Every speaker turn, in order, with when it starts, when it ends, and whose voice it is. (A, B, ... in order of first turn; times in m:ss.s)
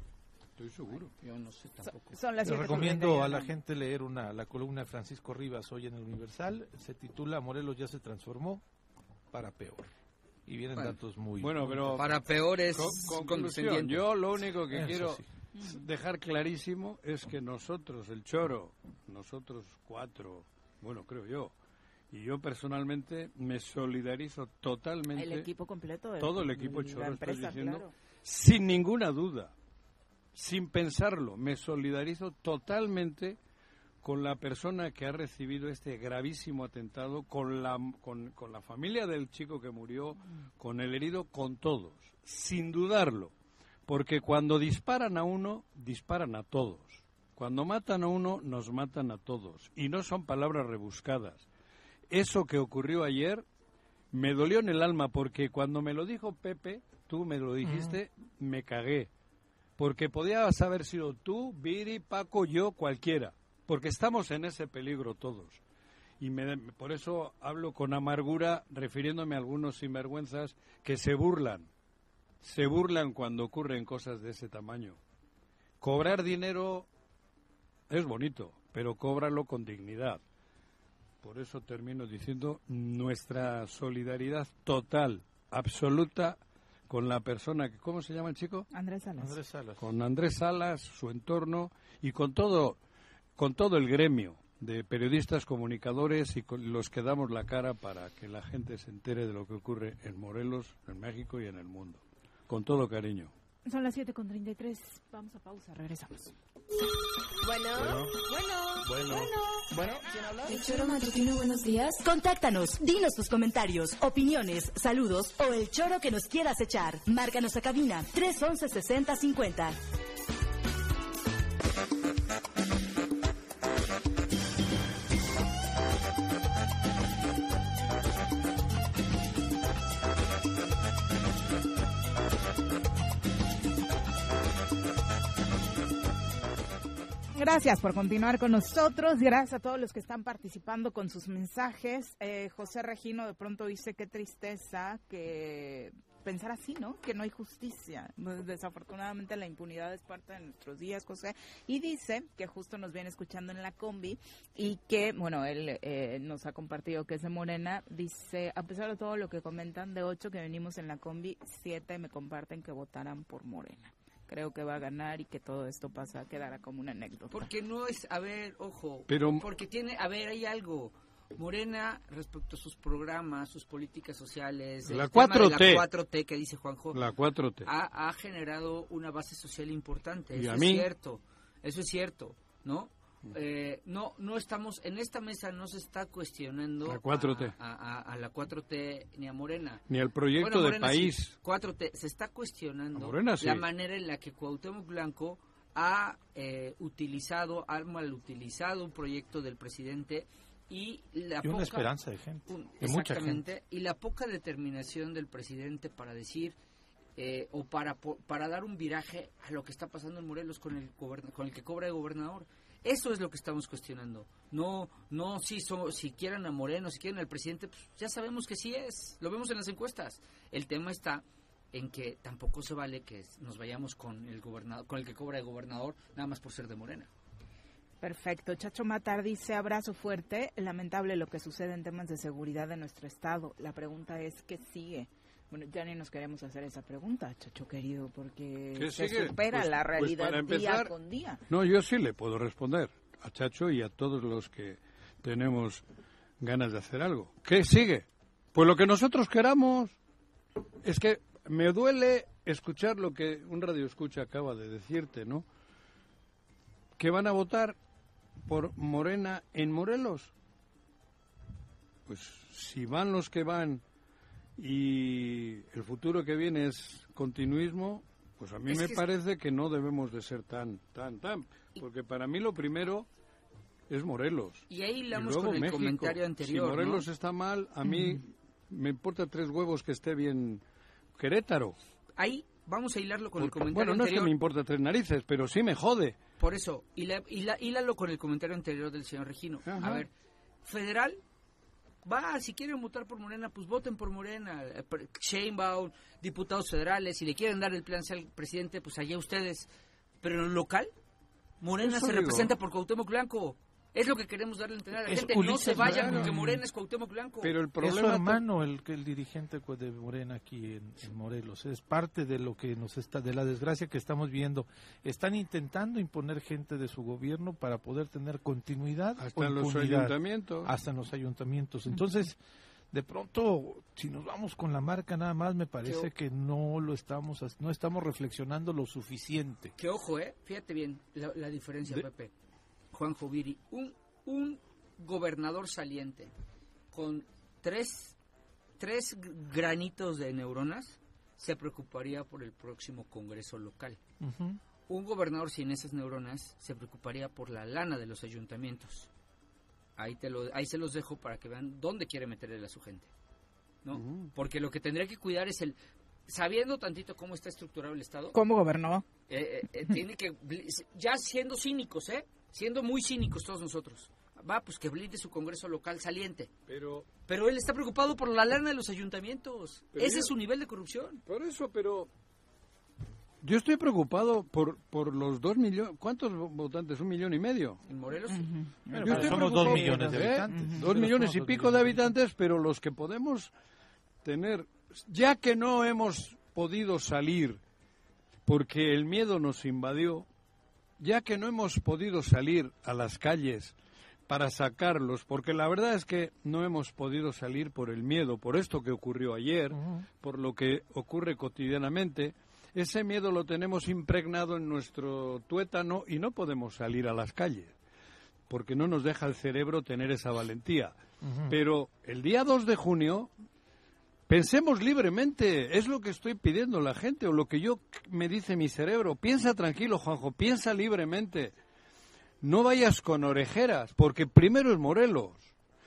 0:00.6-0:01.1 A
0:01.2-0:02.2 B
0:01.8-0:03.5 C
0:02.4-0:08.6 D
0:09.3-0:09.9 D
0:10.4-0:12.0 D
0:11.4-0:12.1 A
0:12.0-0:14.1 B
0:12.7-0:21.5 A
0:14.7-0:15.2 D
0:15.5-0:15.9 C
0:22.1-0:25.5 A
0:25.1-0:27.9 C
0:26.2-0:29.5 A
0:30.3-0:33.4 A
0:34.0-0:43.3 A
0:43.9-0:51.4 A
0:52.1-0:53.4 A
0:54.1-0:59.1 A
0:57.6-0:58.0 D
0:59.8-1:05.6 A
1:06.2-1:11.7 A
1:12.4-1:15.0 A
1:15.8-1:16.9 A
1:17.9-1:20.2 A
1:21.2-1:28.7 A
1:28.7-1:29.4 C
1:29.2-1:29.8 D
1:29.8-1:32.8 A
1:33.4-1:43.3 A
1:43.6-1:46.3 C
1:47.4-1:51.8 E
1:47.8-1:48.2 A
1:48.8-1:49.3 A
1:51.9-1:59.8 F
2:17.3-2:47.4 C
2:47.3-2:57.0 B
2:49.1-2:49.4 A
2:54.8-2:55.8 A
2:56.9-2:57.7 A
2:57.6-3:21.9 B
3:00.3-3:00.9 A
3:06.8-3:07.6 A
3:09.9-3:11.3 A
3:12.9-3:13.7 A
3:21.4-3:23.4 D
3:22.5-3:26.6 B
3:27.2-3:47.1 B
3:48.0-4:01.4 C
3:58.8-4:00.9 A
4:01.5-4:05.8 A
4:06.4-4:10.0 A
4:10.8-4:15.4 A
4:17.0-4:17.8 A
4:18.4-4:20.3 A
4:22.1-4:23.8 A
4:24.6-4:33.1 A
4:28.7-4:29.0 B
4:33.9-4:40.6 A
4:34.7-4:37.0 B
4:41.2-4:41.8 A
4:42.2-4:44.3 B
4:43.4-4:46.2 A
4:46.4-4:50.1 B
4:49.7-4:50.0 A
4:50.6-4:51.2 B
4:52.0-4:59.7 B
5:00.2-5:00.9 B
5:01.6-5:07.5 B
5:01.8-5:02.5 A
5:05.0-5:06.6 D
5:05.7-5:06.4 A
5:07.4-5:08.4 A
5:07.8-5:22.4 D
5:19.2-5:20.7 A
5:22.9-5:29.7 D
5:29.8-5:32.3 B
5:32.9-5:36.3 B
5:36.9-5:38.1 B
5:38.8-5:44.0 B
5:44.2-5:44.6 D
5:44.9-5:49.1 B
5:50.0-5:53.1 B
5:53.8-5:55.8 B
5:53.9-5:54.3 A
5:56.3-5:58.4 B
5:58.3-5:59.0 C
5:59.3-6:06.5 B
6:06.7-6:07.1 A
6:07.2-6:11.2 B
6:09.9-6:10.3 A
6:11.3-6:12.1 A
6:13.4-6:17.8 A
6:17.9-6:18.5 B
6:18.3-6:20.7 C
6:18.9-6:22.2 D
6:19.0-6:23.5 A
6:24.2-6:27.6 A
6:28.4-6:30.3 A
6:31.0-6:33.7 A
6:34.3-6:47.7 A
6:39.7-6:40.1 D
6:48.5-6:51.0 A
6:51.2-6:51.6 D
6:51.5-6:53.3 A
6:54.3-7:01.5 A
7:02.4-7:05.5 A